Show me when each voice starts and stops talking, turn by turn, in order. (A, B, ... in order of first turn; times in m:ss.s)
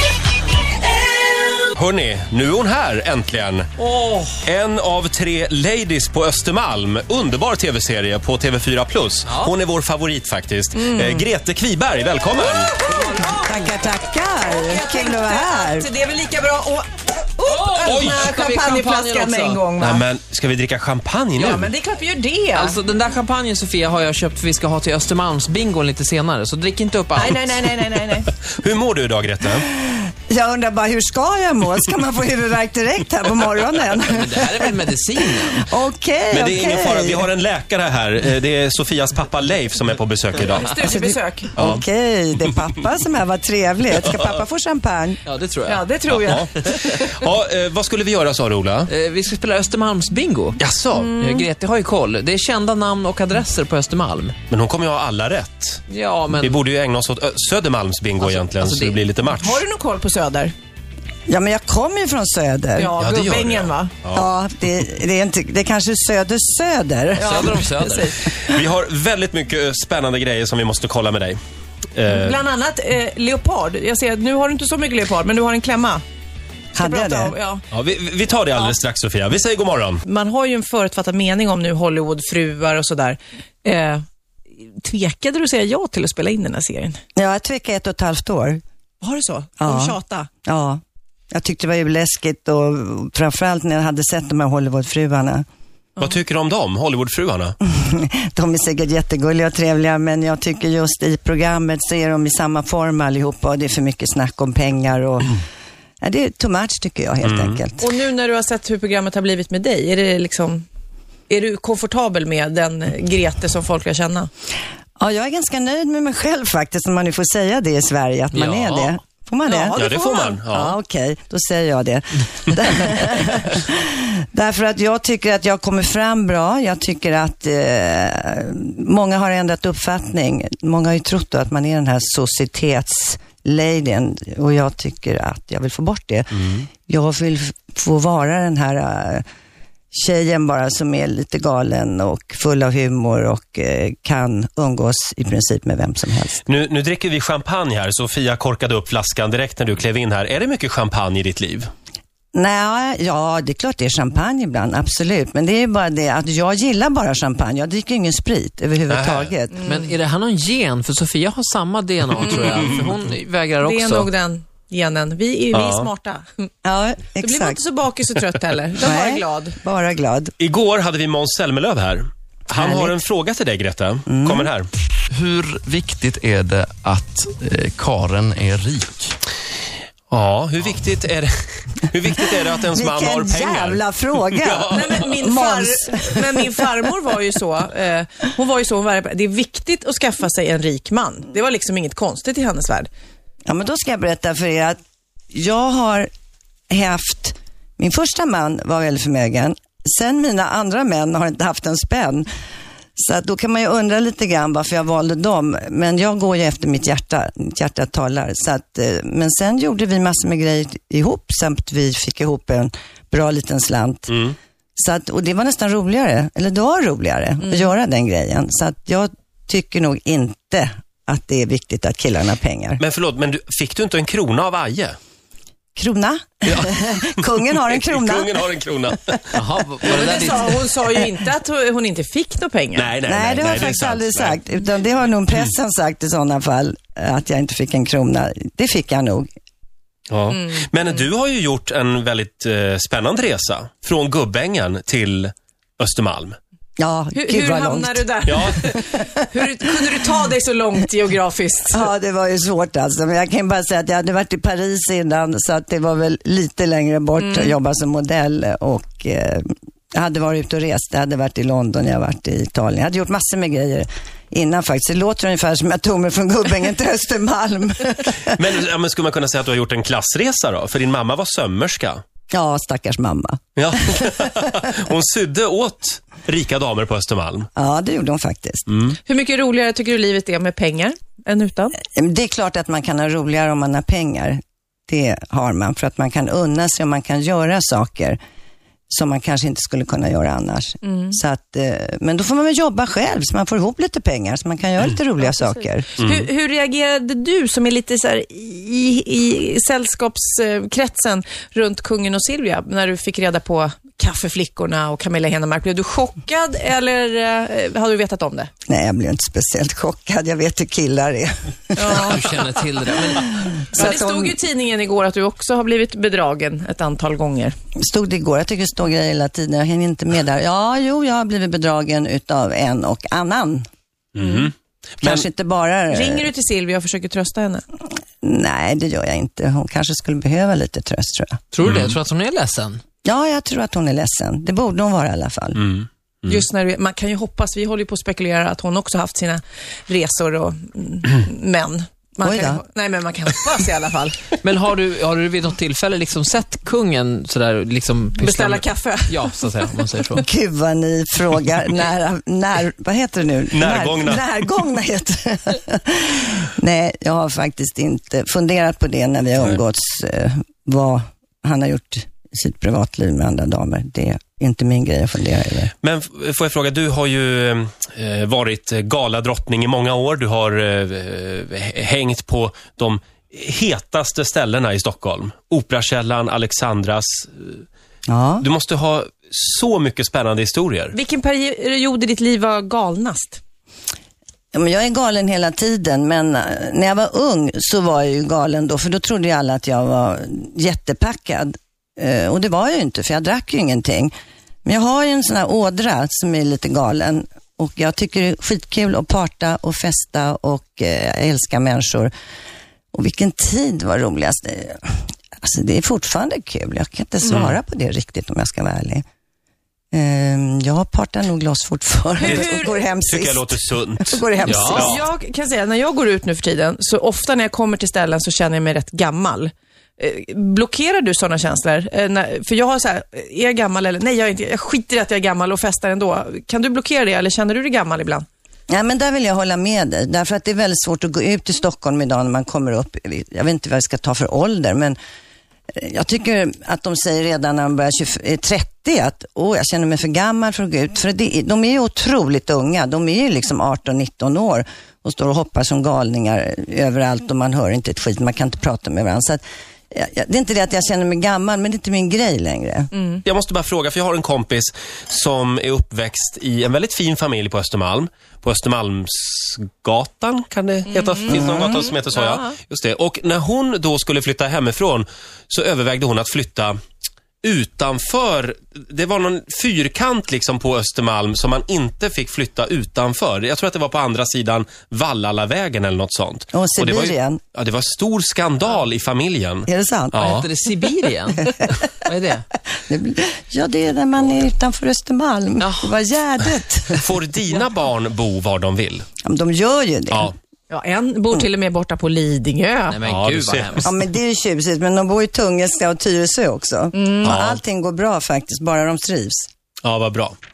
0:01.7-0:03.7 A
0:03.8-0:04.4 B
0:04.4-0:12.8 A
0:09.3-0:09.5 B
0:10.8-0:11.2 C
0:12.4-0:13.8 C
0:13.4-0:15.9 D
0:14.4-0:20.0 C
0:17.4-0:19.6 B
0:17.8-0:18.3 A
0:19.8-0:21.7 A
0:21.4-0:22.8 C
0:22.6-0:27.4 B
0:27.2-0:28.3 C
0:28.4-0:29.7 A
0:29.7-0:34.8 D
0:34.0-0:35.7 B
0:35.5-0:37.3 D
0:36.3-0:40.9 A
0:40.5-0:41.5 C
0:40.8-0:45.2 D
0:41.6-0:41.8 A
0:45.3-0:46.4 B
0:45.7-0:47.1 C
0:46.1-0:48.9 A
0:48.9-0:50.6 B
0:50.6-0:51.2 A
0:50.9-0:51.5 C
0:51.2-0:54.4 B
0:54.5-0:55.8 A
0:55.9-0:56.6 B
0:56.4-0:59.6 A
0:58.2-0:59.0 B
0:59.4-1:00.5 C
1:01.3-1:02.9 D
1:02.8-1:03.9 C
1:03.0-1:04.3 A
1:04.1-1:07.7 D
1:07.2-1:08.2 B
1:07.2-1:08.6 C
1:08.3-1:11.4 A
1:12.0-1:12.4 A
1:12.1-1:16.0 C
1:16.7-1:17.4 D
1:16.8-1:17.6 C
1:17.7-1:20.0 A
1:20.0-1:24.0 C
1:24.6-1:27.0 C
1:27.2-1:28.6 D
1:29.0-1:30.3 C
1:29.6-1:30.8 D
1:31.3-1:35.4 D
1:36.0-1:37.6 A
1:37.6-1:45.4 D
1:46.0-1:47.9 D
1:47.2-1:47.6 A
1:47.8-1:50.6 C
1:51.3-1:54.3 C
1:55.0-1:59.8 D
1:58.3-1:59.0 B
1:59.5-2:00.4 C
1:59.8-2:00.8 A
2:00.4-2:19.2 D
2:16.4-2:16.7 A
2:19.9-2:26.4 D
2:26.5-2:31.7 A
2:32.3-2:39.7 D
2:38.9-2:39.3 A
2:39.6-2:39.9 C
2:39.6-2:44.1 B
2:42.2-2:42.6 C
2:43.6-2:46.4 C
2:45.5-2:45.9 A
2:46.6-2:47.6 D
2:47.2-2:49.6 C
2:48.8-2:50.3 D
2:50.4-2:54.7 A
2:52.6-2:53.0 D
2:54.1-2:54.5 D
2:55.1-2:59.2 E
3:00.1-3:05.1 A
3:02.7-3:06.6 D
3:04.7-3:12.9 C
3:13.5-3:14.8 D
3:15.3-3:16.1 D
3:16.7-3:22.3 D
3:23.0-3:34.1 D
3:34.1-3:34.4 A
3:34.8-3:42.8 D
3:37.4-3:37.7 C
3:42.8-3:45.0 A
3:45.8-3:48.4 D
3:46.5-3:49.4 A
3:49.3-3:50.7 B
3:49.8-3:53.0 C
3:52.8-3:54.4 A
3:53.1-3:59.3 D
4:00.1-4:06.4 A
4:00.3-4:00.7 C
4:06.8-4:09.1 D
4:07.2-4:11.9 C
4:08.3-4:08.6 A
4:11.7-4:28.3 D
4:17.2-4:17.5 C
4:28.3-4:32.0 A
4:32.3-4:34.3 D
4:33.6-4:37.5 A
4:37.6-4:38.7 D
4:38.7-4:39.0 A
4:39.1-4:41.8 C
4:41.8-4:48.2 D
4:48.9-4:56.0 D
4:50.8-4:51.2 C
4:55.2-5:08.5 C
5:08.7-5:12.2 D
5:11.8-5:12.4 C
5:12.0-5:13.2 B
5:13.1-5:14.4 D
5:13.1-5:17.5 C
5:17.8-5:23.6 D
5:24.2-5:25.3 A
5:24.2-5:24.5 C
5:25.0-5:26.3 D
5:25.9-5:27.6 C
5:28.2-5:31.4 D
5:31.5-5:32.8 B
5:31.6-5:32.0 A
5:33.0-5:35.6 D
5:35.6-5:36.5 A
5:36.3-5:44.3 C
5:42.2-5:42.6 D
5:44.4-5:50.3 B
5:48.2-5:49.3 C
5:50.2-6:05.7 D
5:53.5-5:54.3 A
6:05.8-6:17.6 A
6:18.1-6:18.5 D
6:18.4-6:21.0 A
6:20.9-6:23.4 C
6:24.5-6:34.1 D
6:34.6-6:42.1 D
6:42.9-6:49.0 D
6:47.2-6:47.5 C
6:49.9-6:55.0 D
6:52.2-6:52.8 C
6:52.2-6:55.0 A
6:54.4-6:55.0 B
6:54.6-7:08.3 C
7:08.7-7:15.0 D
7:15.8-7:32.9 D
7:32.9-7:33.2 C
7:33.2-7:46.8 A
7:40.9-7:42.5 C
7:41.3-7:41.9 D
7:47.4-8:00.5 A
7:56.5-7:57.4 D
7:59.7-8:00.2 D
8:00.2-8:02.4 B
8:02.8-8:07.1 D
8:05.6-8:06.0 B
8:07.0-8:09.1 A
8:09.2-8:10.3 D
8:10.7-8:13.0 C
8:12.9-8:13.9 B
8:13.0-8:13.9 A
8:13.8-8:19.5 D
8:16.9-8:17.3 C
8:17.2-8:17.6 A
8:19.8-8:20.4 A